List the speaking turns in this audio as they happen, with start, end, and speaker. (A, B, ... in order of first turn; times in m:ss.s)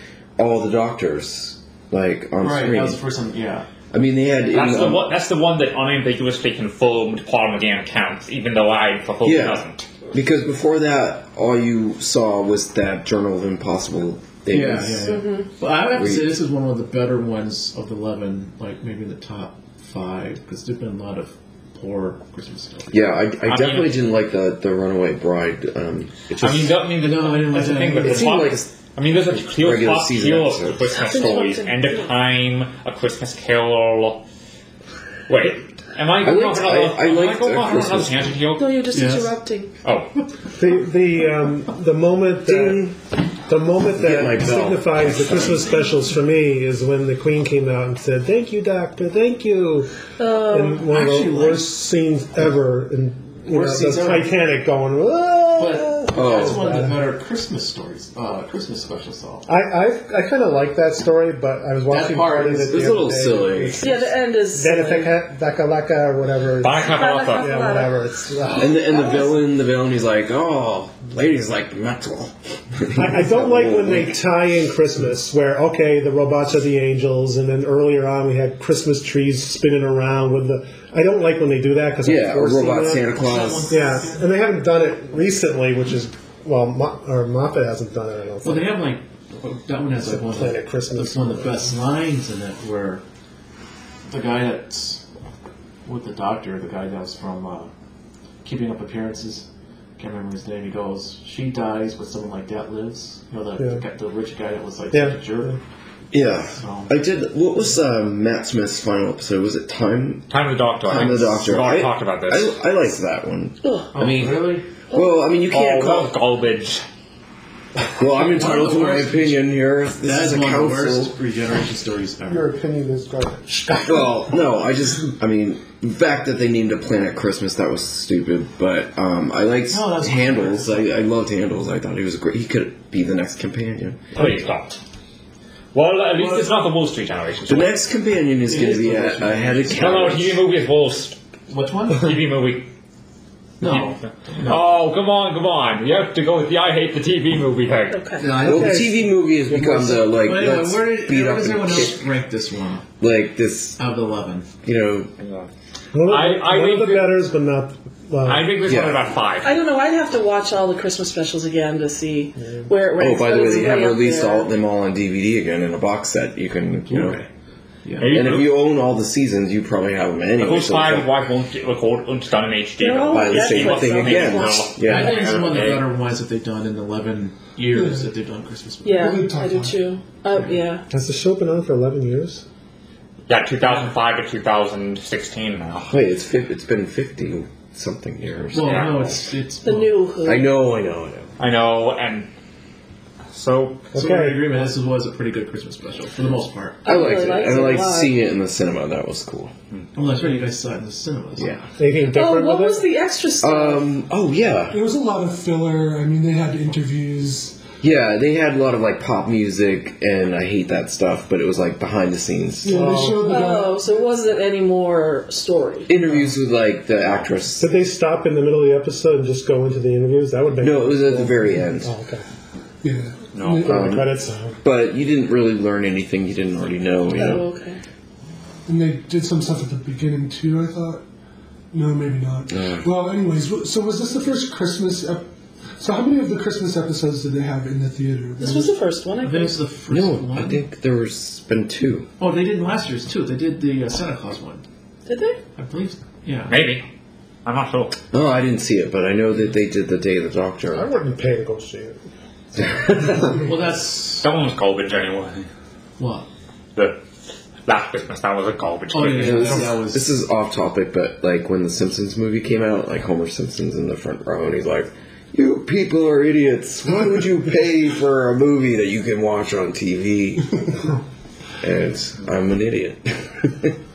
0:00.4-0:03.0 A
0:02.4-0:03.7 B
0:03.9-0:05.0 A
0:04.5-0:09.9 C
0:09.2-0:15.2 A
0:14.5-0:23.1 B
0:15.0-0:15.5 D
0:15.9-0:16.3 A
0:22.9-0:26.8 A
0:23.4-0:24.0 C
0:26.4-0:34.2 C
0:27.0-0:28.3 B
0:28.0-0:28.7 A
0:29.3-0:31.0 A
0:30.9-0:32.1 D
0:35.3-0:38.8 C
0:36.2-0:38.4 A
0:38.6-0:39.7 D
0:38.9-0:39.4 B
0:39.8-0:40.1 C
0:40.5-0:42.9 E
0:42.4-0:43.0 A
0:43.5-0:56.9 E
0:43.9-0:45.7 A
0:50.2-0:50.8 D
0:50.8-0:51.8 B
0:53.4-0:54.3 B
0:55.6-0:59.4 B
0:56.1-0:56.8 A
0:59.5-1:09.1 E
1:01.9-1:02.8 B
1:02.7-1:04.0 A
1:03.8-1:05.2 D
1:06.6-1:07.5 C
1:06.8-1:08.0 D
1:08.5-1:14.2 A
1:12.9-1:23.1 E
1:22.0-1:23.9 A
1:23.1-1:24.4 B
1:23.7-1:28.8 E
1:28.4-1:33.0 B
1:30.0-1:31.6 E
1:34.1-1:35.0 B
1:35.8-1:37.7 B
1:38.4-1:39.4 B
1:40.0-1:45.6 B
1:44.9-1:45.6 E
1:46.1-1:50.3 A
1:46.4-1:46.9 B
1:50.3-1:52.5 C
1:50.8-1:56.1 A
1:53.6-1:53.9 D
1:53.9-1:54.7 B
1:55.5-1:56.8 C
1:58.0-2:01.1 A
1:58.0-1:59.4 B
2:00.0-2:02.5 B
2:02.3-2:04.0 E
2:03.8-2:14.2 A
2:09.7-2:10.8 B
2:14.1-2:14.8 C
2:15.7-2:17.8 C
2:16.1-2:16.6 B
2:17.5-2:20.4 A
2:18.4-2:20.1 B
2:19.7-2:21.2 C
2:21.5-2:22.2 B
2:21.9-2:22.7 C
2:23.6-2:24.7 B
2:23.6-2:28.0 C
2:27.9-2:28.2 D
2:28.2-2:29.0 B
2:28.4-2:28.9 E
2:28.4-2:32.0 A
2:29.5-2:30.0 E
2:29.6-2:32.9 B
2:33.0-2:33.8 A
2:33.8-2:34.5 B
2:34.6-2:35.1 A
2:35.2-2:35.5 C
2:35.9-2:38.5 E
2:36.0-2:37.2 C
2:38.2-2:39.5 C
2:38.6-2:39.0 A
2:39.4-2:44.5 D
2:43.0-2:47.2 A
2:46.9-2:47.3 B
2:47.8-2:48.3 B
2:48.0-2:48.5 C
2:48.1-2:51.1 A
2:50.4-2:55.8 C
2:52.8-2:54.7 D
2:53.1-2:55.2 A
2:54.8-2:59.1 B
2:57.7-2:58.1 F
2:58.8-3:00.8 D
2:58.9-2:59.8 F
3:00.3-3:00.6 B
3:00.9-3:02.4 E
3:03.3-3:05.9 C
3:03.6-3:03.9 B
3:05.9-3:09.2 A
3:08.5-3:10.1 B
3:08.5-3:09.2 C
3:09.6-3:10.5 D
3:10.2-3:11.3 A
3:11.4-3:12.3 C
3:13.3-3:13.9 C
3:13.9-3:14.6 E
3:13.9-3:17.0 B
3:16.8-3:18.1 D
3:16.8-3:19.5 A
3:19.9-3:21.7 B
3:21.8-3:22.9 E
3:22.1-3:23.9 D
3:23.4-3:24.8 A
3:24.7-3:27.6 F
3:27.8-3:33.0 A
3:32.6-3:34.0 F
3:32.7-3:33.4 E
3:33.2-3:35.9 D
3:35.9-3:37.7 A
3:37.6-3:42.2 E
3:40.6-3:41.9 A
3:42.8-3:44.0 F
3:43.3-3:43.7 C
3:43.6-3:44.6 E
3:43.6-3:47.4 A
3:47.1-3:47.8 D
3:48.7-3:51.0 F
3:51.7-3:55.2 F
3:52.5-3:52.8 A
3:55.8-3:58.7 F
3:58.4-3:59.6 D
3:59.2-4:00.6 B
3:59.9-4:02.1 A
4:02.2-4:04.6 B
4:05.1-4:05.4 D
4:05.6-4:06.7 B
4:06.5-4:06.8 C
4:07.4-4:08.0 C
4:08.1-4:10.9 A
4:10.7-4:12.0 E
4:12.7-4:13.3 A
4:13.3-4:14.3 B
4:14.2-4:15.5 C
4:16.0-4:16.3 B
4:16.7-4:17.0 C
4:17.6-4:19.7 C
4:18.9-4:20.0 B
4:19.2-4:30.8 A
4:31.6-4:33.7 A